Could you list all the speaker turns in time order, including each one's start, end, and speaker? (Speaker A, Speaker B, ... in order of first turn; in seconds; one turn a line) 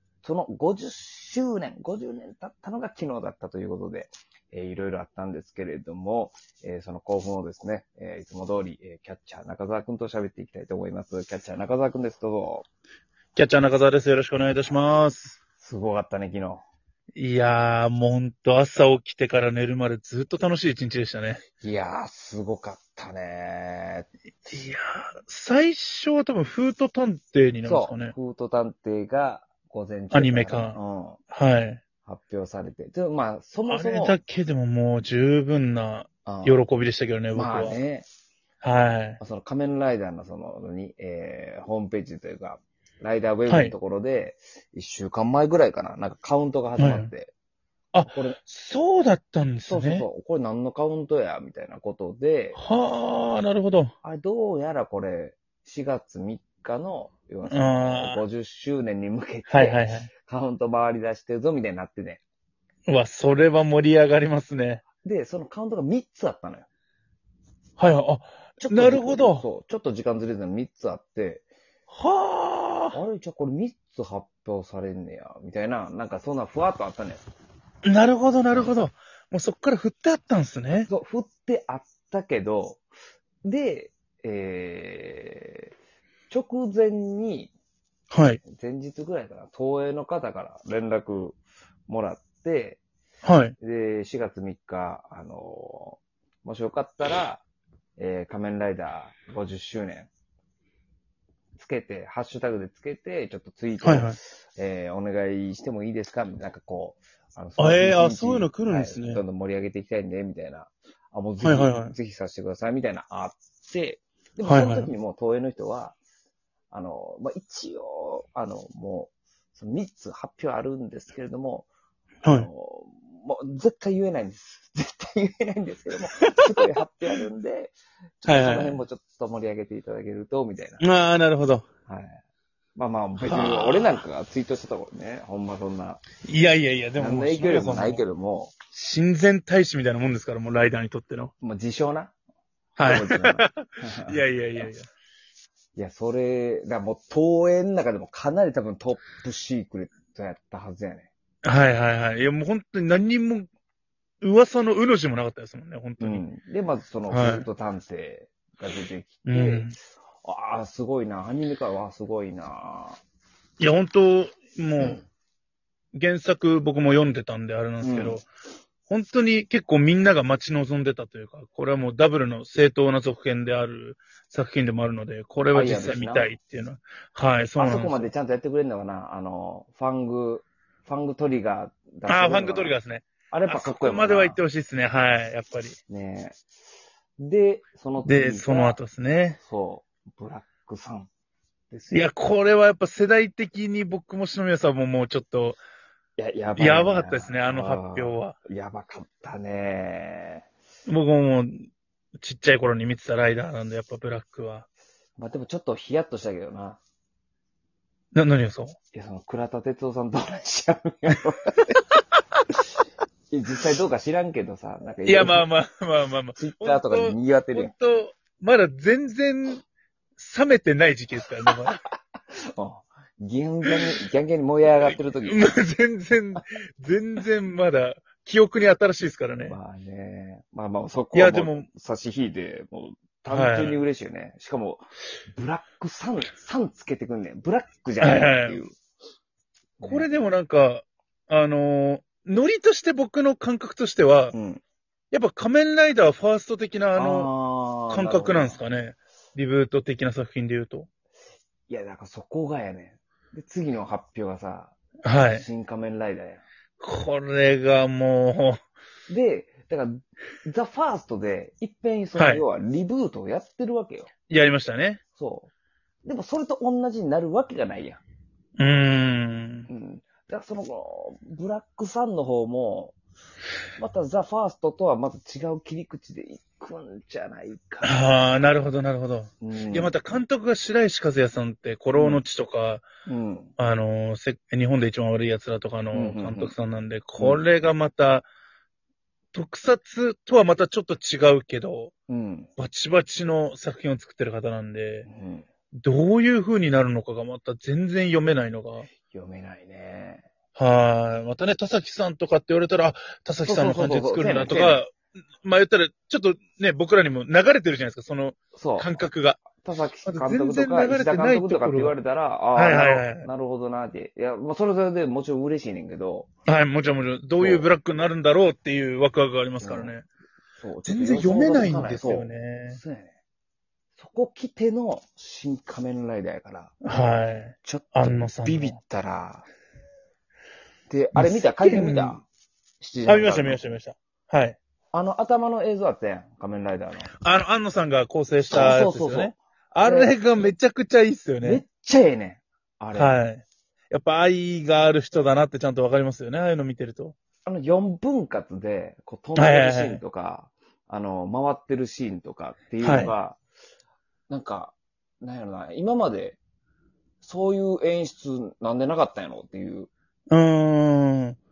Speaker A: 0.2-12.7
Speaker B: 13.3-15.4
Speaker A: 15.6-16.6
Speaker B: 17.1-21.4
Speaker A: 21.6-24.1
Speaker B: 24.5-28.1
Speaker A: 27.6-31.2
Speaker B: 30.1-30.8
Speaker B: 31.3-31.8
Speaker A: 32.0-34.2
Speaker B: 33.7-37.8
Speaker A: 36.3-36.6
Speaker A: 37.3-38.1
Speaker B: 38.6-39.2
Speaker A: 39.2-47.3
Speaker B: 43.5-43.8
Speaker B: 46.8-47.1
Speaker B: 47.9-50.1
Speaker A: 48.1-48.4
Speaker A: 49.7-52.6
Speaker B: 52.6-53.9
Speaker A: 54.0-62.2
Speaker B: 57.5-58.2
Speaker B: 59.5-60.1
Speaker B: 62.9-64.8
Speaker A: 65.0-66.7
Speaker B: 67.8-69.5
Speaker A: 68.6-71.5
Speaker B: 71.9-73.0
Speaker A: 72.9-77.2
Speaker B: 77.8-80.9
Speaker A: 80.9-82.8
Speaker A: 83.4-85.7
Speaker A: 86.3-87.5
Speaker B: 88.1-88.4
Speaker A: 88.5-92.8
Speaker B: 93.2-93.6
Speaker A: 93.6-97.5
Speaker A: 98.0-100.1
Speaker A: 101.6-116.0
Speaker B: 103.8-104.2
Speaker B: 107.6-109.2
Speaker B: 111.4-112.0
Speaker B: 114.5-114.9
Speaker A: 116.7-121.7
Speaker A: 122.3-130.8
Speaker B: 126.2-126.7
Speaker B: 128.3-128.8
Speaker B: 130.8-131.6
Speaker A: 131.9-132.2
Speaker A: 132.8-136.0
Speaker B: 133.2-134.0
Speaker B: 136.2-138.1
Speaker A: 137.0-138.6
Speaker B: 138.7-141.3
Speaker A: 141.4-142.1
Speaker B: 142.8-144.9
Speaker A: 142.8-144.7
Speaker A: 145.8-151.1
Speaker B: 151.4-153.5
Speaker B: 154.2-156.2
Speaker A: 156.0-159.7
Speaker B: 157.1-157.5
Speaker B: 159.3-159.8
Speaker A: 160.2-163.0
Speaker B: 163.6-165.0
Speaker B: 165.9-168.3
Speaker A: 167.8-168.2
Speaker B: 168.9-178.1
Speaker A: 175.5-176.3
Speaker A: 177.6-182.8
Speaker B: 182.1-185.8
Speaker A: 183.3-184.4
Speaker A: 185.9-186.4
Speaker A: 187.2-188.8
Speaker B: 188.1-189.4
Speaker A: 189.4-191.1
Speaker A: 191.7-192.1
Speaker B: 191.9-195.6
Speaker A: 196.2-200.5
Speaker B: 196.6-198.4
Speaker B: 200.9-204.7
Speaker A: 205.2-206.8
Speaker B: 208.1-208.8
Speaker A: 208.9-211.8
Speaker A: 213.3-215.5
Speaker B: 215.1-219.6
Speaker A: 216.3-217.7
Speaker B: 220.2-221.8
Speaker A: 222.4-225.5
Speaker B: 225.3-229.6
Speaker A: 229.4-238.7
Speaker B: 231.1-231.7
Speaker B: 233.3-233.8
Speaker B: 238.0-238.6
Speaker A: 239.8-240.1
Speaker B: 239.8-244.3
Speaker A: 244.3-244.6
Speaker B: 245.1-247.3
Speaker A: 246.9-248.6
Speaker B: 247.9-250.9
Speaker A: 251.7-254.8
Speaker B: 255.0-255.5
Speaker A: 255.3-256.4
Speaker B: 256.8-258.6
Speaker A: 259.1-264.1
Speaker B: 262.1-262.4
Speaker B: 264.3-265.0
Speaker A: 265.1-265.5
Speaker A: 266.1-268.0
Speaker B: 268.6-269.7
Speaker A: 269.7-273.0
Speaker A: 273.8-277.9
Speaker B: 277.8-282.8
Speaker A: 279.4-280.0
Speaker A: 281.9-282.2
Speaker A: 283.1-283.5
Speaker B: 283.6-288.3
Speaker A: 285.9-286.6
Speaker A: 287.2-287.4
Speaker B: 289.3-291.9
Speaker A: 292.1-292.5
Speaker B: 292.6-295.1
Speaker A: 295.1-295.5
Speaker B: 295.7-298.9
Speaker A: 299.1-300.3
Speaker B: 300.6-309.4
Speaker A: 303.4-304.8
Speaker A: 308.5-308.9
Speaker A: 309.4-316.3
Speaker B: 310.1-311.9
Speaker B: 312.6-313.3
Speaker B: 316.5-320.1
Speaker A: 317.4-317.7
Speaker A: 319.6-319.9
Speaker A: 320.6-323.1
Speaker B: 320.9-322.8
Speaker A: 324.0-326.8
Speaker B: 326.8-328.8
Speaker A: 327.6-329.5
Speaker A: 330.9-332.2
Speaker B: 331.1-332.2
Speaker A: 332.8-333.6
Speaker B: 333.1-334.6
Speaker A: 334.9-337.1
Speaker B: 337.2-341.6
Speaker A: 338.5-340.5
Speaker A: 341.4-343.2
Speaker B: 342.9-347.1
Speaker A: 347.5-353.4
Speaker B: 349.4-350.0
Speaker B: 352.8-353.1
Speaker A: 354.3-356.4
Speaker A: 357.2-359.9
Speaker B: 360.3-361.4